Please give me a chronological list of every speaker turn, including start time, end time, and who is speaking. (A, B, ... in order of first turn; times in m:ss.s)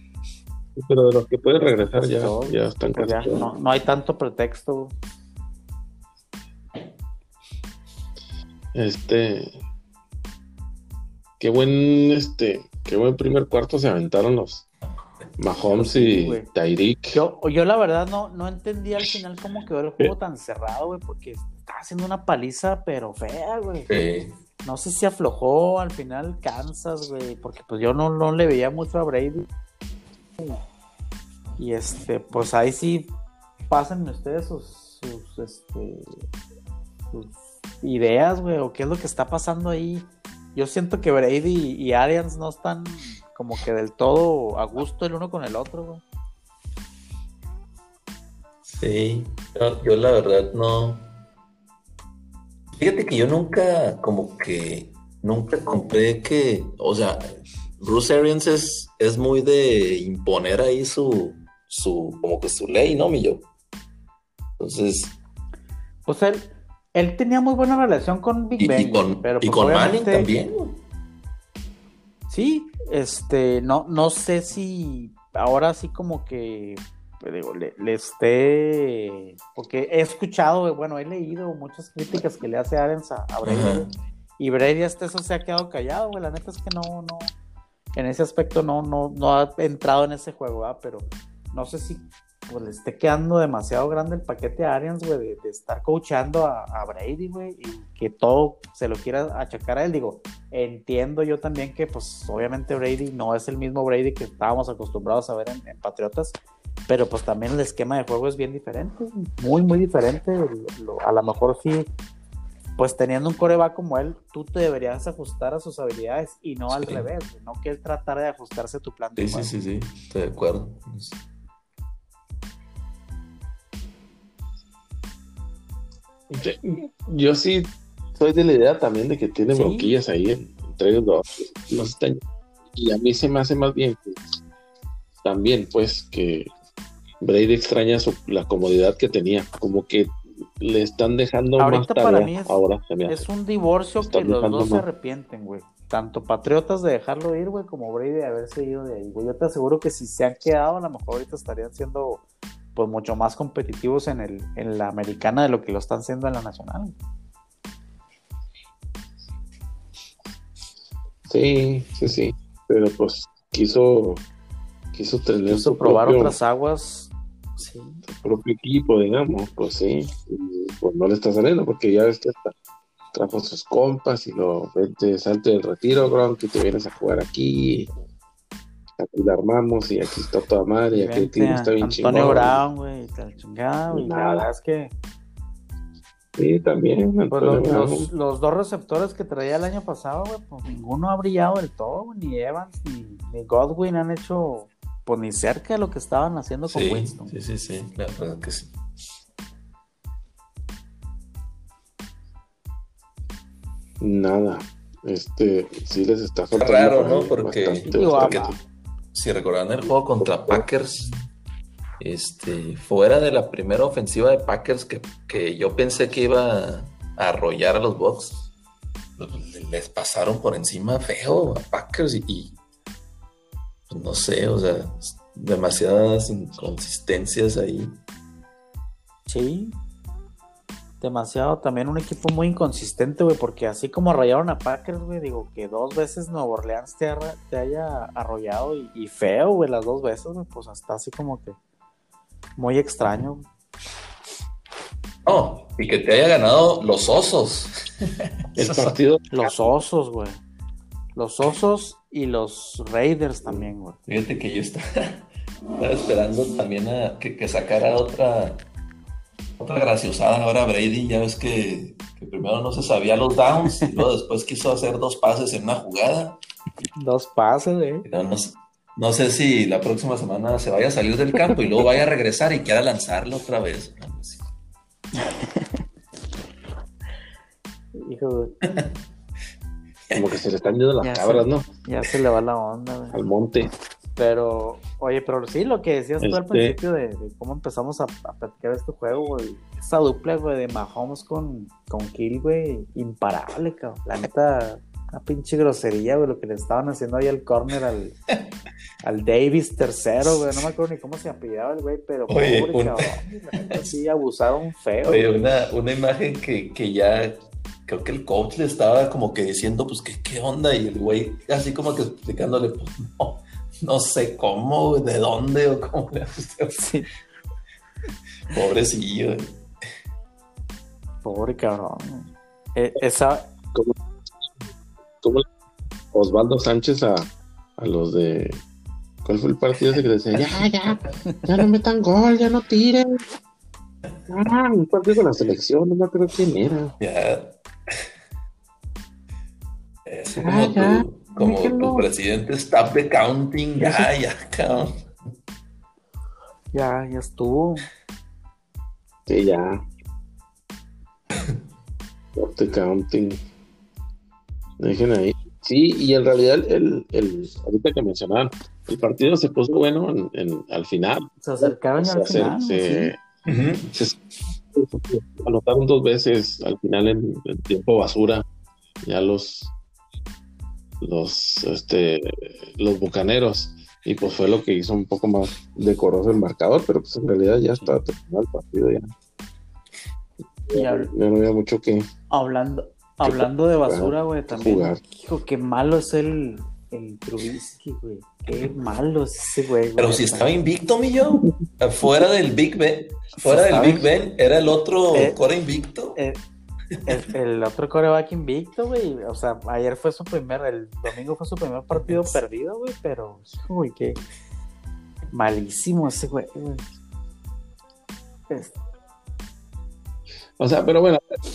0:00.8-0:03.5 A
0:01.5-0:04.9 B
0:08.7-0:09.5 A
0:11.4-0:14.6 A
0:15.4-0:17.2 A
0:15.7-0:16.5 B
0:17.1-0:23.9 B
0:23.9-0:24.4 C
0:24.6-0:29.5 B
0:31.6-0:33.1 B
0:33.7-0:36.2 B
0:37.1-0:46.0 B
0:48.7-0:51.1 C
0:52.8-1:03.4 C
1:04.6-1:05.2 C
1:06.0-1:10.3 B
1:08.6-1:10.8 C
1:12.3-1:23.9 B
1:23.4-1:23.9 C
1:24.4-1:27.3 B
1:28.0-1:46.4 B
1:46.9-1:51.9 B
1:52.8-1:59.5 B
1:56.7-1:57.1 C
1:59.2-2:01.2 C
2:06.3-2:12.2 A
2:09.5-2:09.9 B
2:12.7-2:14.4 A
2:15.2-2:16.5 A
2:17.2-2:23.2 A
2:21.6-2:32.2 B
2:24.0-2:24.9 A
2:32.7-2:36.9 B
2:41.2-2:44.2 A
2:44.9-2:46.4 A
2:45.5-2:48.0 B
2:48.1-2:52.5 A
2:53.1-2:57.9 A
2:59.0-3:02.6 A
3:00.9-3:04.9 B
3:03.9-3:04.5 A
3:06.4-3:08.1 A
3:07.3-3:17.3 B
3:16.7-3:18.7 C
3:24.0-3:28.5 A
3:26.5-3:28.5 C
3:27.8-3:28.6 B
3:29.1-3:31.1 C
3:30.2-3:30.6 A
3:32.0-3:38.4 C
3:39.2-3:42.6 C
3:43.9-3:48.0 C
3:49.3-3:49.8 B
3:51.0-4:01.6 B
4:02.6-4:03.4 B
4:05.2-4:07.7 C
4:08.4-4:09.0 C
4:08.6-4:09.3 A
4:09.3-4:10.4 B
4:11.2-4:14.0 B
4:14.1-4:15.2 C
4:15.8-4:18.6 C
4:19.6-4:26.4 C
4:23.7-4:24.0 B
4:27.0-4:28.0 B
4:28.0-4:34.5 C
4:35.2-4:35.8 B
4:38.0-4:38.6 B
4:40.1-4:40.4 C
4:40.1-4:41.7 A
4:41.0-4:43.2 B
4:43.1-4:43.7 A
4:44.2-4:58.1 B
4:46.2-4:46.8 A
4:59.0-5:05.3 B
5:02.3-5:03.8 C
5:05.0-5:16.8 C
5:16.8-5:17.1 B
5:18.5-5:19.6 C
5:21.2-5:23.5 B
5:26.1-5:28.6 A
5:29.2-5:33.2 A
5:34.3-5:36.9 A
5:37.0-5:37.9 C
5:40.0-5:45.0 C
5:40.4-5:42.0 A
5:43.8-5:44.1 B
5:46.7-5:47.9 B
5:49.3-5:49.8 A
5:52.3-5:53.4 A
5:54.8-6:03.2 A
6:01.4-6:03.1 B
6:03.4-6:03.9 C
6:03.9-6:04.2 A
6:04.7-6:08.4 A
6:09.0-6:09.7 A
6:11.0-6:19.1 A
6:20.7-6:22.1 A
6:20.7-6:21.1 B
6:22.3-6:30.5 B
6:23.2-6:25.0 A
6:30.0-6:36.2 C
6:33.4-6:34.1 B
6:35.1-6:35.4 B
6:37.0-6:44.2 B
6:41.9-6:42.4 C
6:45.3-6:46.8 B
6:48.5-6:48.8 B
6:50.6-6:51.2 A